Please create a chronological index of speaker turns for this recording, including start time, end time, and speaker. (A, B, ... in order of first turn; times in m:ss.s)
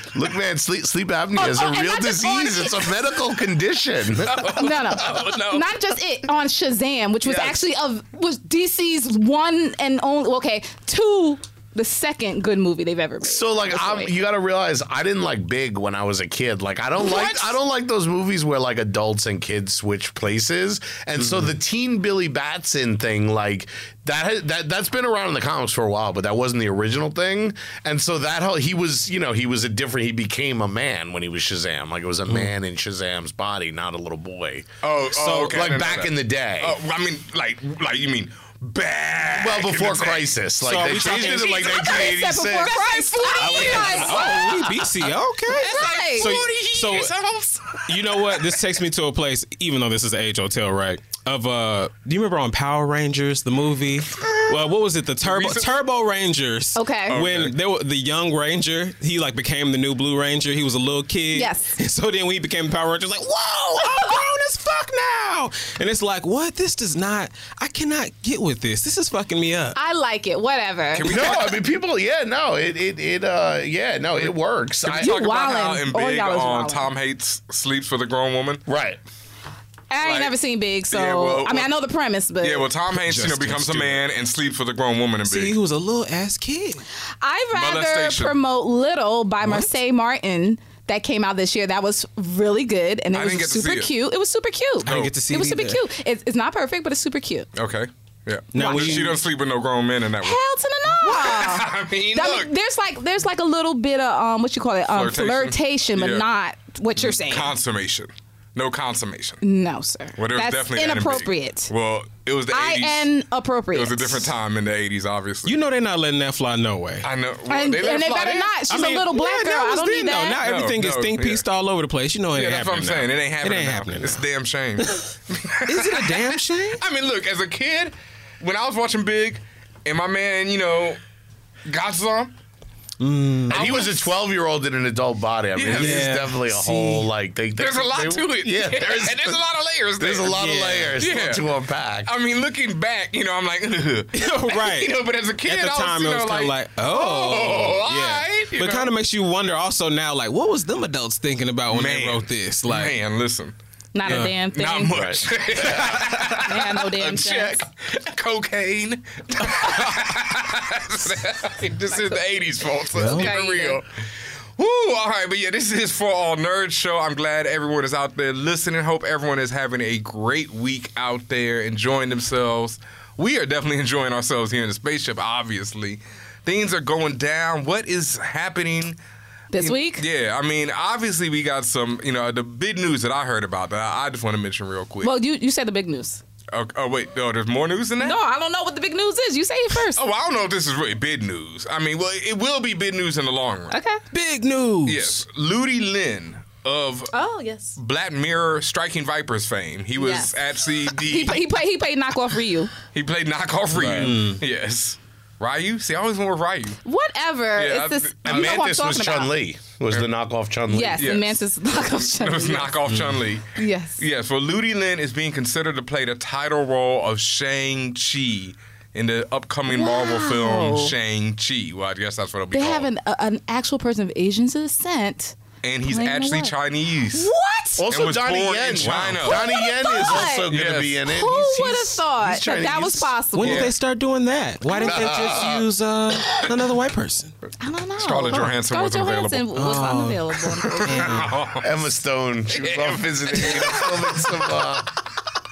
0:00.1-0:04.7 A
0:01.4-0:02.9 B
0:04.2-0:05.8 C
0:04.6-0:14.1 B
0:07.2-0:07.6 A
0:13.2-0:34.7 A
0:17.0-0:17.6 B
0:34.8-0:48.6 C
0:35.1-0:35.7 D
0:35.5-0:36.8 A
0:39.3-0:44.6 A
0:40.6-0:41.7 D
0:41.1-0:44.3 B
0:43.4-0:47.1 D
0:45.5-0:46.3 B
0:47.9-1:09.8 D
0:55.2-0:55.7 C
0:56.7-0:57.2 B
0:57.1-0:57.5 C
1:01.3-1:01.8 B
1:03.8-1:04.1 B
1:09.8-1:11.2 B
1:10.9-1:11.6 C
1:11.0-1:15.2 A
1:14.8-1:18.6 C
1:14.9-1:16.9 B
1:18.7-1:19.0 A
1:19.9-1:22.7 B
1:20.0-1:20.3 C
1:20.9-1:21.7 C
1:22.4-1:25.6 C
1:22.9-1:24.0 D
1:25.2-1:26.8 D
1:27.2-1:37.5 B
1:27.5-1:28.3 C
1:29.4-1:29.7 D
1:33.1-1:33.9 C
1:34.8-1:35.8 D
1:34.8-1:35.1 C
1:37.5-1:42.5 C
1:38.5-1:39.2 D
1:38.6-1:39.1 B
1:40.2-1:47.5 B
1:44.9-1:46.2 C
1:47.0-1:49.4 C
1:49.4-1:51.7 B
1:50.2-1:53.1 C
1:52.5-1:54.3 B
1:53.7-1:55.6 C
1:55.4-1:57.1 D
1:57.0-1:58.5 C
1:57.5-2:00.4 B
1:58.7-2:04.2 D
2:00.4-2:01.4 C
2:02.3-2:11.0 C
2:04.8-2:05.0 D
2:05.7-2:06.8 D
2:11.6-2:12.3 C
2:13.0-2:13.8 D
2:13.5-2:19.4 A
2:13.5-2:14.1 C
2:15.5-2:16.2 C
2:15.7-2:17.0 D
2:17.6-2:20.4 C
2:20.0-2:22.1 A
2:20.3-2:20.9 D
2:21.0-2:21.4 C
2:22.0-2:28.9 C
2:24.1-2:33.0 D
2:31.7-2:33.6 C
2:33.9-2:35.0 B
2:34.0-2:34.3 D
2:34.1-2:43.8 C
2:34.9-2:36.2 A
2:36.3-2:37.6 B
2:41.9-2:42.2 B
2:42.9-2:43.3 D
2:43.0-2:43.8 B
2:44.6-2:59.0 C
2:59.5-3:00.0 B
2:59.6-3:05.1 C
3:05.0-3:06.2 B
3:06.5-3:08.2 C
3:08.0-3:10.0 B
3:09.9-3:13.7 C
3:13.7-3:14.0 B
3:14.1-3:15.2 D
3:14.8-3:17.1 C
3:17.1-3:17.8 B
3:17.8-3:21.4 C
3:20.0-3:20.3 B
3:20.9-3:22.7 B
3:22.9-3:26.8 C
3:23.7-3:24.4 D
3:26.8-3:29.3 B
3:27.6-3:28.7 C
3:28.2-3:31.1 A
3:30.7-3:32.7 B
3:31.0-3:42.9 C
3:33.6-3:34.0 B
3:39.7-3:40.9 B
3:42.5-3:46.5 B
3:45.6-3:47.3 C
3:47.1-3:47.8 B
3:47.8-3:53.2 A
3:47.9-3:49.5 C
3:49.2-3:50.5 B
3:50.0-3:51.0 C
3:51.0-3:53.7 B
3:53.3-3:57.3 D
3:53.4-3:53.7 C
3:54.6-3:55.2 B
3:54.8-3:55.7 A
3:57.6-4:01.2 B
3:58.0-3:59.6 C
3:59.5-4:01.3 D
4:00.8-4:01.8 C
4:01.6-4:04.9 A
4:02.5-4:04.5 C